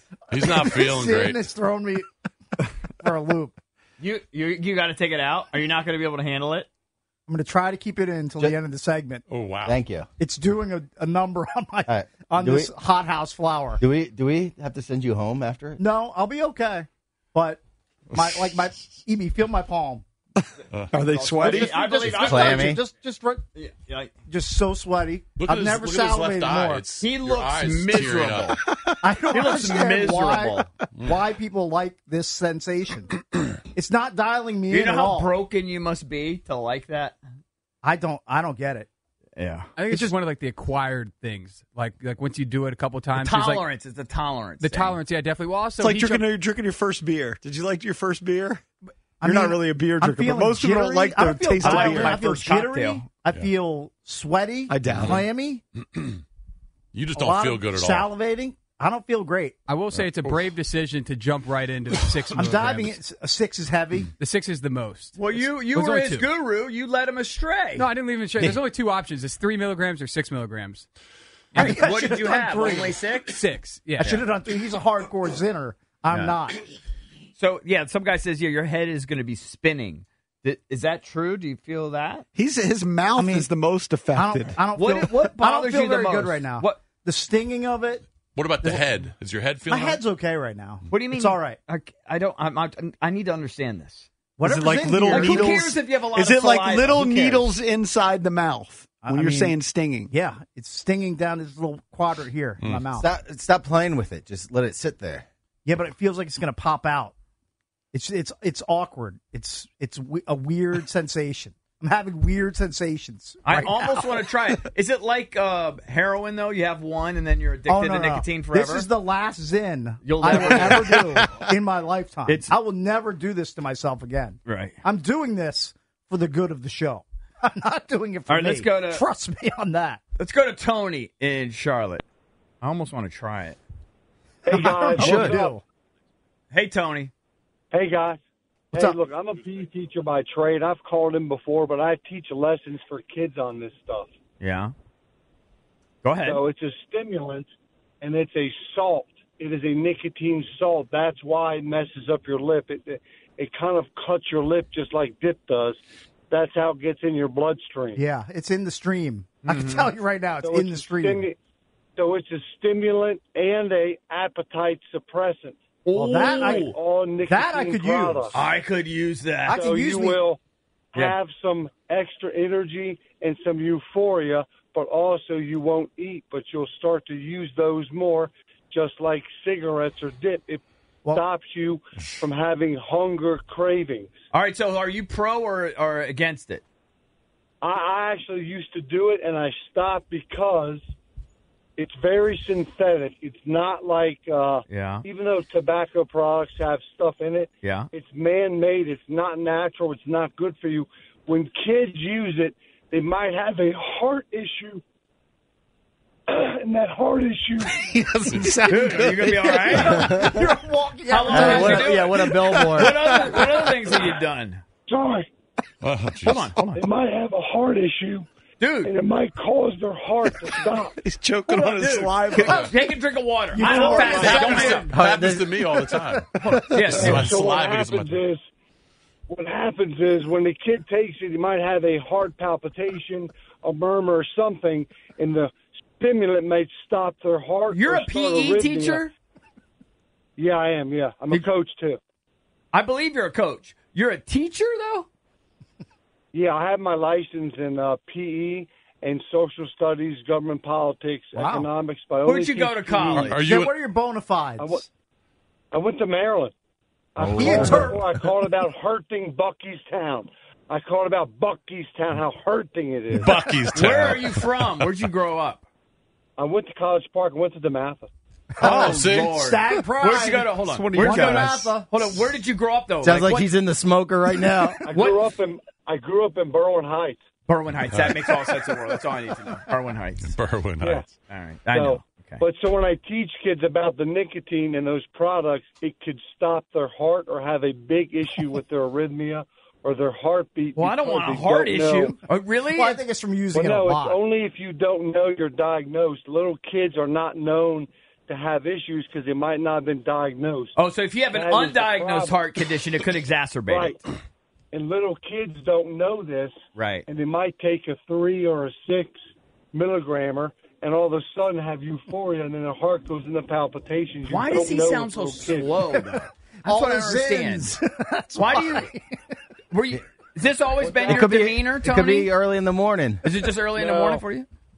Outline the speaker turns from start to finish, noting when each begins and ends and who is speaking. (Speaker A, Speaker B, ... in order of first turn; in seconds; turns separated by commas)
Speaker A: 0.3-1.4, Speaker B: 0.4-2.0, Speaker B: 3.0-3.5, Speaker C: 4.0-6.7, Speaker B: 7.3-9.2, Speaker A: 9.3-9.8, Speaker D: 9.7-10.1, Speaker B: 10.2-13.8, Speaker D: 11.9-12.7, Speaker D: 13.8-15.8, Speaker B: 15.8-17.6, Speaker B: 18.1-20.1, Speaker A: 18.1-18.4, Speaker E: 20.9-21.8, Speaker C: 21.1-22.8, Speaker B: 21.4-23.4, Speaker D: 22.1-22.8, Speaker C: 23.6-24.1, Speaker B: 24.3-26.8, Speaker A: 25.4-28.6, Speaker C: 27.0-28.6, Speaker B: 29.0-33.1, Speaker C: 29.3-30.7, Speaker A: 30.9-31.2, Speaker B: 33.7-35.3, Speaker C: 34.7-37.2, Speaker B: 37.8-38.9, Speaker C: 39.4-39.7, Speaker F: 39.8-43.7, Speaker B: 39.9-40.2, Speaker C: 43.1-45.0, Speaker F: 44.6-46.3, Speaker E: 45.8-48.6, Speaker B: 49.2-55.6, Speaker E: 49.2-52.2, Speaker C: 51.6-53.0, Speaker E: 54.7-55.2, Speaker A: 56.0-56.2, Speaker A: 56.9-58.1, Speaker B: 57.1-59.5, Speaker F: 59.7-63.0, Speaker A: 59.9-60.4, Speaker B: 62.4-64.1, Speaker F: 64.2-66.3, Speaker C: 65.2-67.9, Speaker F: 67.8-70.8, Speaker C: 71.5-73.4, Speaker B: 71.6-73.0, Speaker F: 73.3-74.2, Speaker B: 74.0-76.6, Speaker C: 77.4-82.2, Speaker E: 82.3-84.6, Speaker B: 83.2-83.5, Speaker B: 84.2-88.0, Speaker C: 84.8-86.8, Speaker A: 88.3-90.0, Speaker B: 88.6-89.1, Speaker B: 89.7-91.6, Speaker C: 90.9-94.1, Speaker B: 94.4-95.5, Speaker E: 94.4-100.1, Speaker C: 95.1-97.5, Speaker B: 99.0-99.6, Speaker B: 100.1-103.0, Speaker A: 102.6-102.9, Speaker D: 102.9-105.2, Speaker B: 105.7-107.2, Speaker B: 107.9-114.0, Speaker C: 113.4-118.9, Speaker B: 117.7-130.0, Speaker C: 120.0-121.4, Speaker E: 120.7-121.0, Speaker C: 122.3-122.5, Speaker C: 124.5-124.8, Speaker C: 128.3-129.0, Speaker C: 130.2-132.0, Speaker C: 132.6-133.6, Speaker G: 134.5-135.6, Speaker B: 134.5-135.6, Speaker E: 135.0-135.3, Speaker C: 135.0-135.3, Speaker C: 136.5-137.1, Speaker G: 137.7-138.2, Speaker G: 138.7-144.1, Speaker C: 144.4-144.7, Speaker C: 146.0-146.4, Speaker G: 146.2-147.5, Speaker G: 148.0-158.0, Speaker B: 157.9-161.2, Speaker C: 159.4-159.9, Speaker G: 160.4-161.4, Speaker G: 162.0-165.6, Speaker C: 165.8-166.8, Speaker B: 165.9-166.7, Speaker G: 166.1-168.4, Speaker B: 167.2-168.3, Speaker C: 168.3-169.6, Speaker B: 169.5-170.2, Speaker G: 169.5-170.4, Speaker G: 170.9-184.1, Speaker C: 184.3-186.6, Speaker G: 187.6-190.8, Speaker G: 191.8-204.8, Speaker C: 194.7-195.0, Speaker C: 197.6-197.9, Speaker G: 206.3-207.8, Speaker E: 207.7-210.4, Speaker C: 208.6-210.3, Speaker B: 209.9-212.8, Speaker C: 211.1-214.6, Speaker D: 211.3-212.3, Speaker E: 211.4-213.6, Speaker G: 214.9-215.3, Speaker A: 215.8-216.5, Speaker C: 216.2-216.8, Speaker G: 216.7-218.3, Speaker C: 218.6-218.9, Speaker G: 218.8-220.9, Speaker E: 221.0-222.7, Speaker C: 221.5-225.4, Speaker B: 223.5-224.9, Speaker G: 223.6-224.9, Speaker A: 224.0-228.2, Speaker D: 225.0-225.5, Speaker C: 226.4-227.4, Speaker E: 226.4-226.8, Speaker G: 226.8-228.4, Speaker G: 229.3-239.0, Speaker C: 237.7-239.1, Speaker G: 240.4-242.0, Speaker C: 242.7-245.1, Speaker G: 246.3-253.4, Speaker B: 251.3-251.7, Speaker C: 252.2-253.3, Speaker A: 253.2-253.7, Speaker B: 253.3-254.8, Speaker G: 254.6-254.9, Speaker G: 255.7-256.5, Speaker G: 257.2-264.0, Speaker C: 257.2-258.0, Speaker A: 257.2-257.9, Speaker B: 257.4-258.0, Speaker A: 263.1-265.1, Speaker C: 263.7-265.7, Speaker G: 266.4-268.1, Speaker B: 268.6-271.9, Speaker A: 268.6-269.5, Speaker C: 268.6-273.5, Speaker E: 270.6-271.7, Speaker D: 273.0-274.8, Speaker G: 274.8-277.2, Speaker C: 274.9-275.2, Speaker C: 277.5-280.4, Speaker A: 277.9-278.2, Speaker A: 280.2-281.1, Speaker G: 280.8-281.1, Speaker C: 281.3-282.4, Speaker G: 281.7-292.2, Speaker C: 290.8-293.0, Speaker B: 292.7-294.2, Speaker G: 293.5-300.8, Speaker C: 300.8-304.0, Speaker G: 301.3-302.4, Speaker G: 303.7-304.0, Speaker G: 304.7-306.6, Speaker C: 306.8-307.1, Speaker G: 307.1-309.2, Speaker G: 309.7-316.2, Speaker C: 314.2-317.8, Speaker B: 316.6-319.0, Speaker C: 318.4-318.9, Speaker C: 319.7-322.3, Speaker D: 321.0-323.2, Speaker B: 321.1-321.4, Speaker C: 323.2-324.5, Speaker G: 323.8-324.2